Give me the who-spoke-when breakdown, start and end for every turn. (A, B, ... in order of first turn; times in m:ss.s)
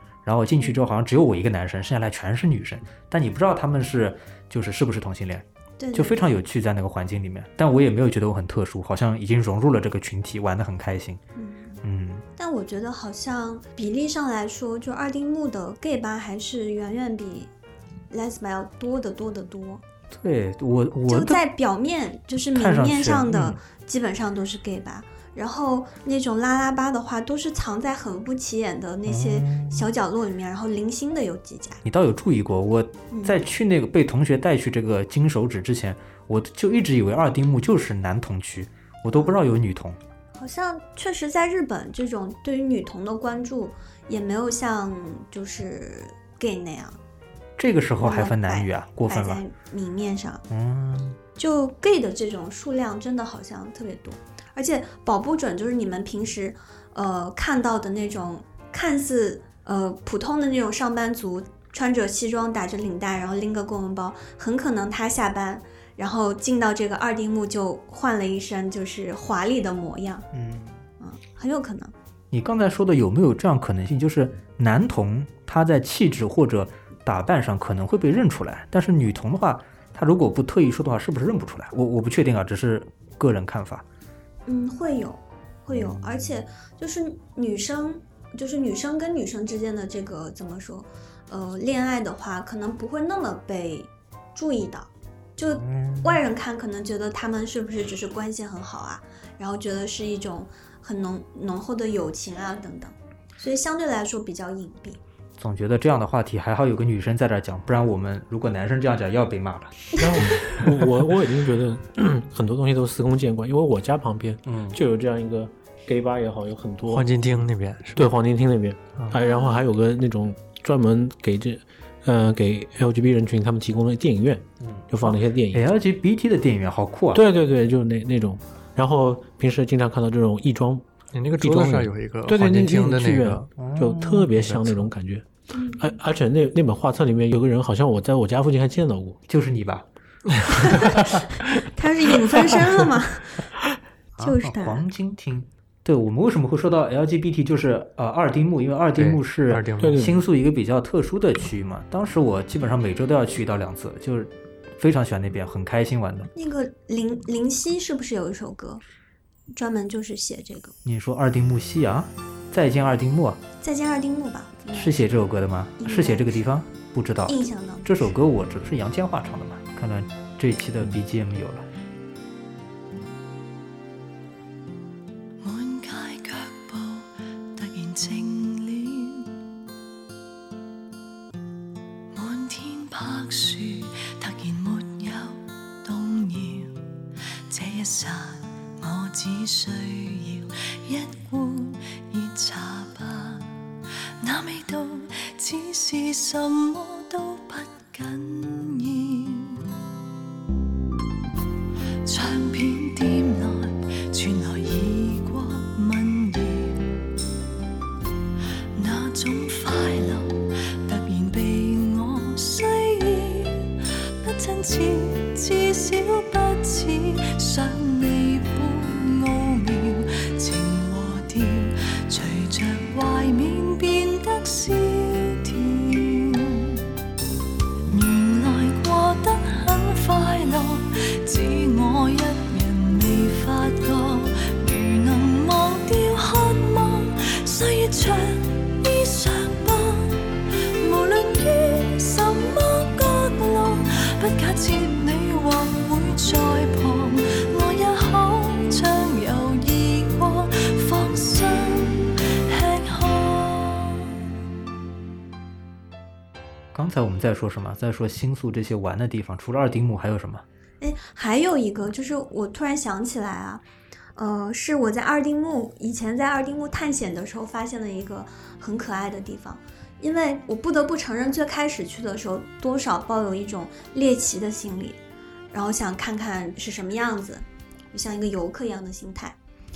0:00.2-0:11.2 A
0:05.8-0:06.4 B
0:11.4-0:11.8 B
0:11.8-0:12.2 A
0:12.4-0:17.5 B
0:18.1-0:19.8 B
0:20.1-0:21.4 A
0:21.1-0:31.8 B
0:22.5-0:23.6 A
0:29.0-0:29.9 A
0:31.8-0:40.0 A
0:33.1-0:33.4 B
0:39.1-0:39.4 B
0:40.4-0:47.0 B
0:47.6-0:49.4 A
0:48.0-0:50.4 B
0:50.5-0:51.2 A
0:51.4-1:10.2 B
1:10.3-1:10.8 A
1:11.0-1:11.9 B
1:12.3-1:23.8 A
1:24.4-1:45.0 B
1:25.7-1:26.1 A
1:35.6-1:36.2 A
1:45.4-1:50.5 A
1:50.0-1:57.1 C
1:54.4-1:54.8 A
1:56.9-1:58.1 D
1:58.0-2:05.6 C
1:59.2-1:59.6 B
2:04.6-2:07.2 A
2:07.1-2:10.8 C
2:11.1-2:13.5 D
2:11.4-2:19.2 C
2:13.6-2:14.6 A
2:14.4-2:14.8 D
2:15.5-2:15.9 B
2:19.3-2:19.8 A
2:20.3-2:21.1 D
2:20.6-2:23.4 B
2:24.1-2:36.3 A
2:24.2-2:24.8 B
2:29.0-2:30.2 D
2:29.8-2:30.2 C
2:36.3-2:38.8 B
2:39.5-2:40.7 B
2:40.8-2:43.4 A
2:43.6-2:45.0 B
2:44.7-2:51.6 A
2:45.8-2:46.4 B
2:47.2-2:48.0 B
2:55.4-2:59.3 E
3:02.1-3:06.8 E
3:07.5-3:13.5 E
3:14.2-3:19.6 E
3:22.0-3:26.9 E
3:28.8-3:46.8 E
3:47.9-4:14.2 E
4:16.7-4:20.4 A
4:20.8-4:23.6 B
4:24.2-4:35.0 B
4:35.5-4:39.4 B